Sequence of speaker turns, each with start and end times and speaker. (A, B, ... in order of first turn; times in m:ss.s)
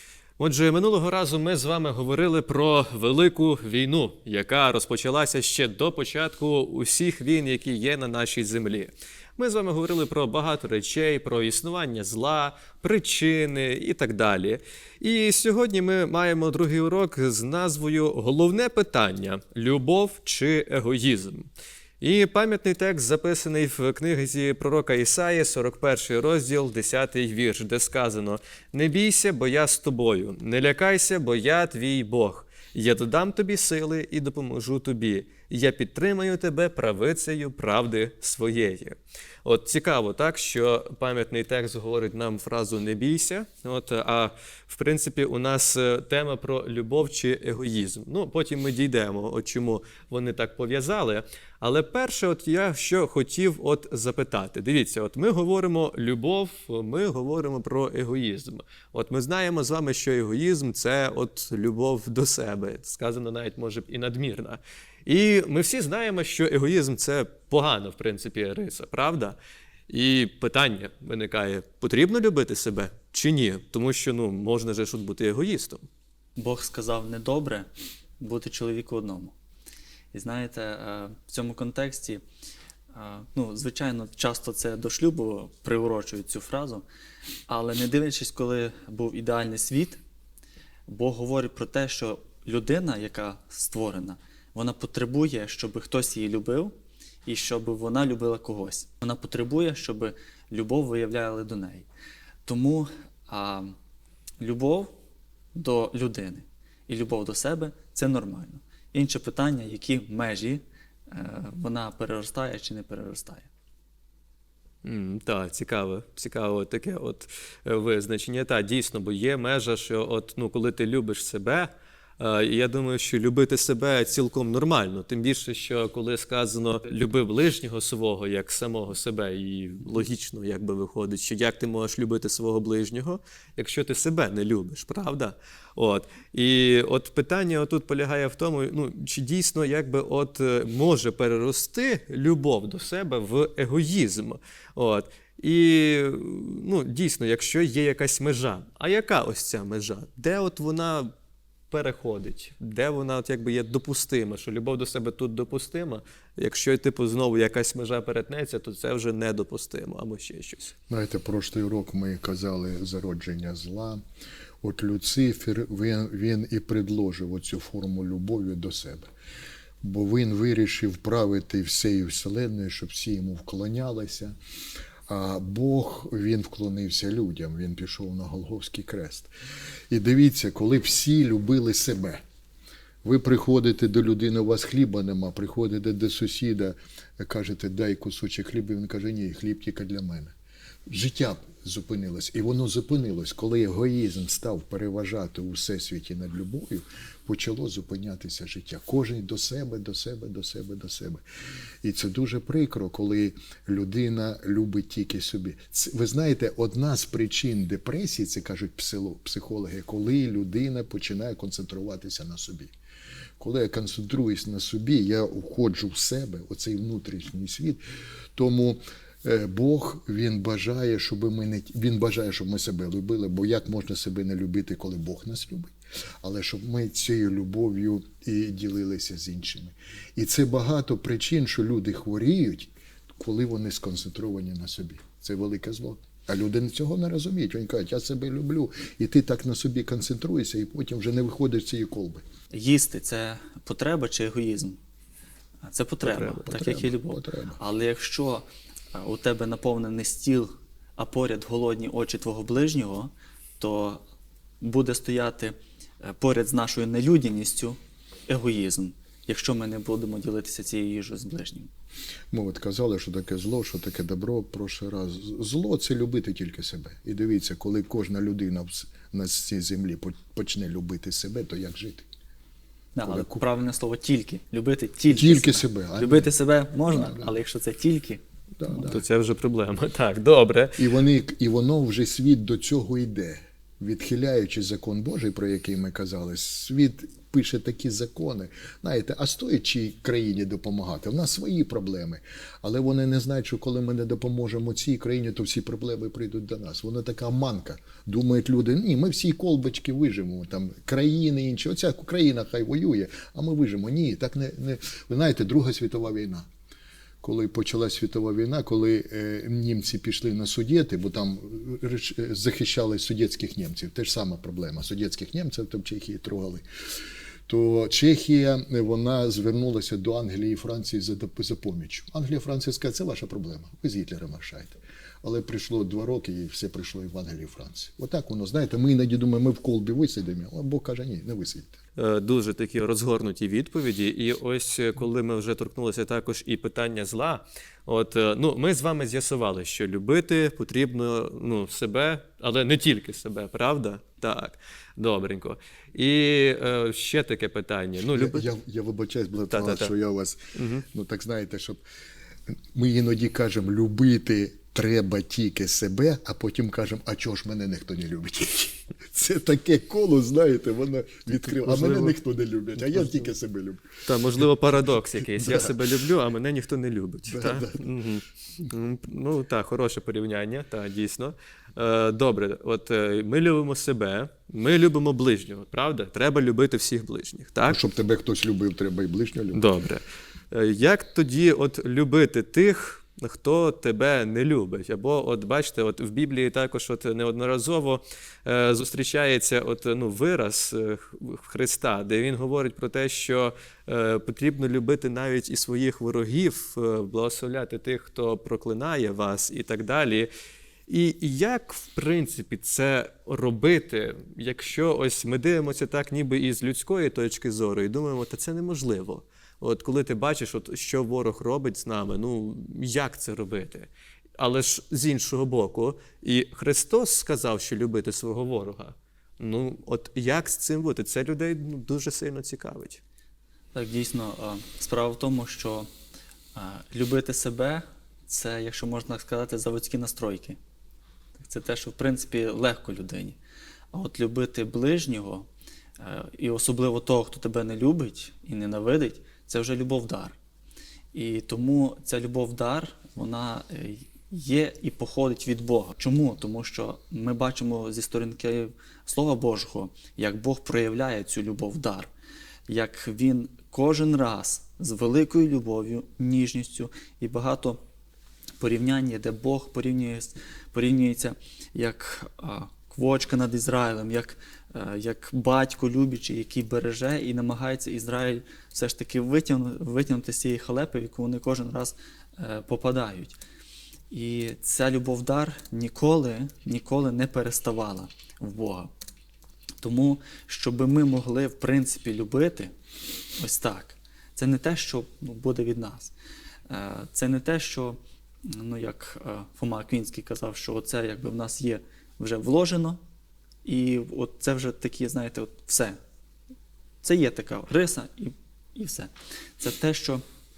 0:00.4-0:21.5 A
0:22.0-1:09.4 A
1:09.9-1:15.8 A
1:16.4-1:19.3 B
1:20.1-1:22.2 B
1:22.9-1:26.8 B
1:27.5-1:30.0 B
1:30.9-1:36.7 B
1:37.2-1:41.9 B
1:42.4-1:43.7 B
1:44.4-1:44.9 B
1:45.5-1:53.5 B
1:54.8-2:31.1 A
2:31.7-2:40.7 A
2:40.9-2:44.0 C
2:44.6-2:49.1 C
2:49.8-2:54.3 C
2:55.1-2:59.3 C
2:59.9-3:02.2 C
3:03.0-3:10.3 C
3:10.9-3:21.2 C
3:21.8-3:32.7 C
3:33.4-3:37.8 C
3:38.4-4:02.2 C
4:02.5-4:04.8 B
4:05.6-4:14.0 B
4:06.1-4:06.4 A
4:06.2-4:07.6 C
4:14.6-4:21.7 B
4:22.3-4:32.1 C
4:32.9-4:38.2 B
4:33.0-4:33.4 C
4:35.1-4:36.3 C
4:36.9-4:37.3 C
4:38.6-4:39.0 C
4:38.7-4:40.8 A
4:40.8-5:06.5 C
5:07.2-5:16.6 C
5:17.5-5:31.8 C
5:32.0-5:48.4 A
5:48.0-5:51.8 C
5:49.5-5:49.9 A
5:50.5-5:50.8 A
5:52.5-6:03.9 C
6:01.4-6:02.2 A
6:02.9-6:03.2 A
6:04.0-6:17.8 A
6:05.4-6:05.8 C
6:07.3-6:07.9 C
6:17.6-6:19.6 C
6:19.5-6:40.3 A
6:40.9-7:03.0 A
7:03.7-7:05.9 B
7:06.5-7:10.6 B
7:11.4-7:13.4 B
7:13.9-7:15.5 B
7:16.0-7:20.4 B
7:21.1-7:32.1 B
7:32.7-7:37.8 B
7:38.6-7:53.4 B
7:54.1-7:58.9 B
7:59.8-8:02.7 B
8:03.4-8:06.1 B
8:06.7-8:13.0 B
8:13.6-8:16.0 B
8:17.0-8:20.2 B